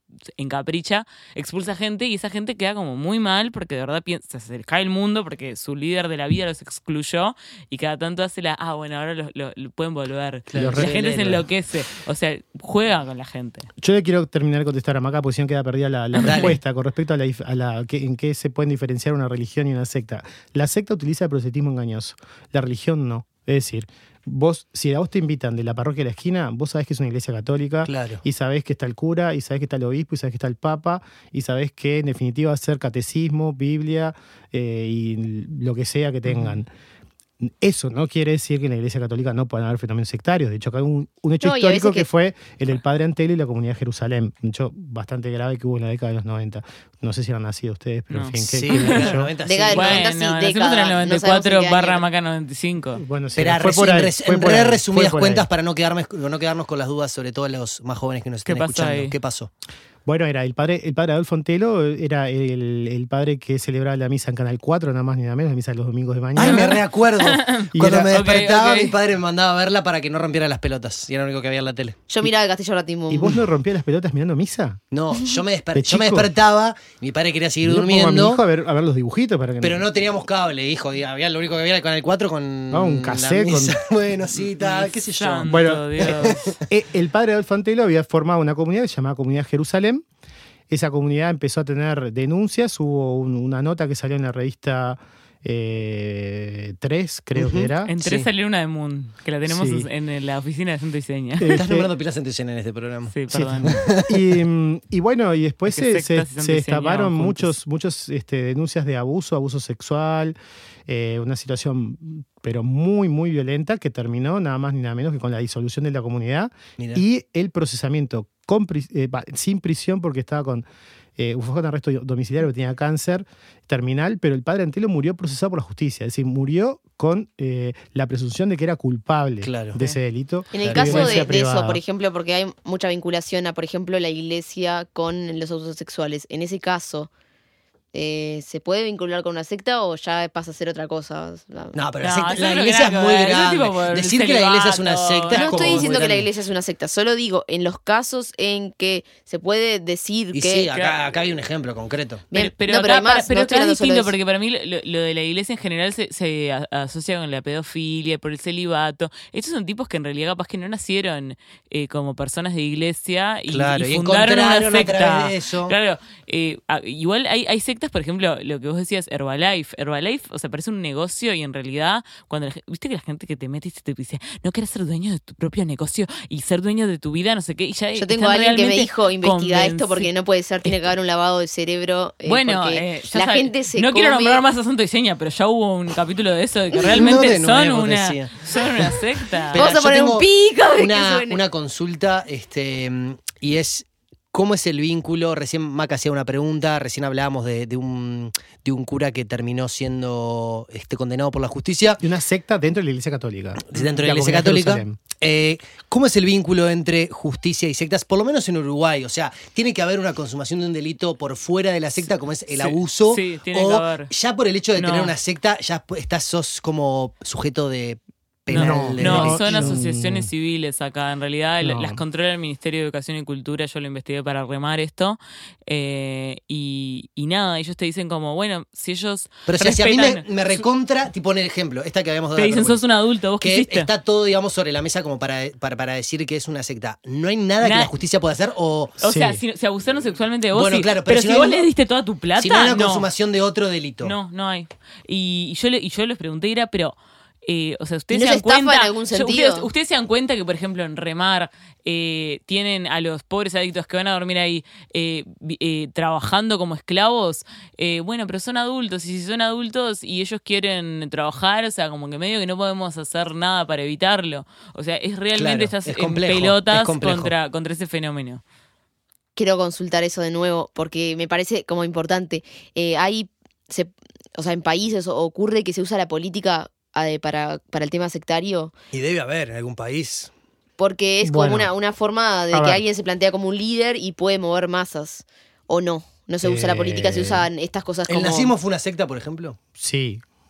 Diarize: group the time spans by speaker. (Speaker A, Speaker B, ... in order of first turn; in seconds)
Speaker A: 0.3-13.7, 16.2-16.6, 36.3-36.5, 48.1-49.1, 49.7-53.0, 58.4-59.1, 66.4-68.9, 84.6-86.6, 97.9-101.5, 103.1-103.9, 105.7-107.6, 142.0-145.9, 152.3-180.1, 182.2-189.7, 212.5-214.1, 214.8-215.1, 218.5-230.6, 232.3-233.9, 237.6-237.9, 239.0-243.1, 244.0-268.4
Speaker B: 10.5-11.4, 16.2-16.6, 27.8-28.2, 48.4-50.0, 53.4-59.5, 66.4-72.0, 74.9-78.4, 79.6-86.5, 97.4-98.1, 101.5-104.3, 116.8-117.0, 129.4-129.8, 130.6-131.2, 141.7-146.3, 150.3-152.3, 163.5-165.7, 186.8-202.0, 203.7-219.8, 229.5-232.8, 233.4-239.0, 240.5-241.6, 242.4-244.1, 265.4-267.3, 278.9-280.3, 288.1-289.6
Speaker C: 10.5-11.4, 13.8-36.7, 37.4-49.3, 53.0-55.5, 60.1-66.8, 67.7-68.2, 73.1-74.8, 75.7-76.3, 77.6-79.8, 82.7-83.8, 85.5-86.2, 86.7-90.0, 90.7-98.2, 99.5-99.9, 101.4-101.9, 103.3-110.3, 110.9-120.7, 121.2-131.8, 202.0-205.0, 218.5-220.3, 221.6-222.0, 239.0-239.4, 281.2-281.7, 282.5-282.8, 286.4-287.5, 289.8-290.2
Speaker D: 41.4-42.1, 49.4-52.0, 72.1-73.4, 130.5-137.1, 137.9-141.8, 145.3-150.7, 152.3-154.1, 178.0-184.4, 186.7-187.1, 189.6-191.4, 248.1-249.7, 269.4-278.7, 280.8-288.5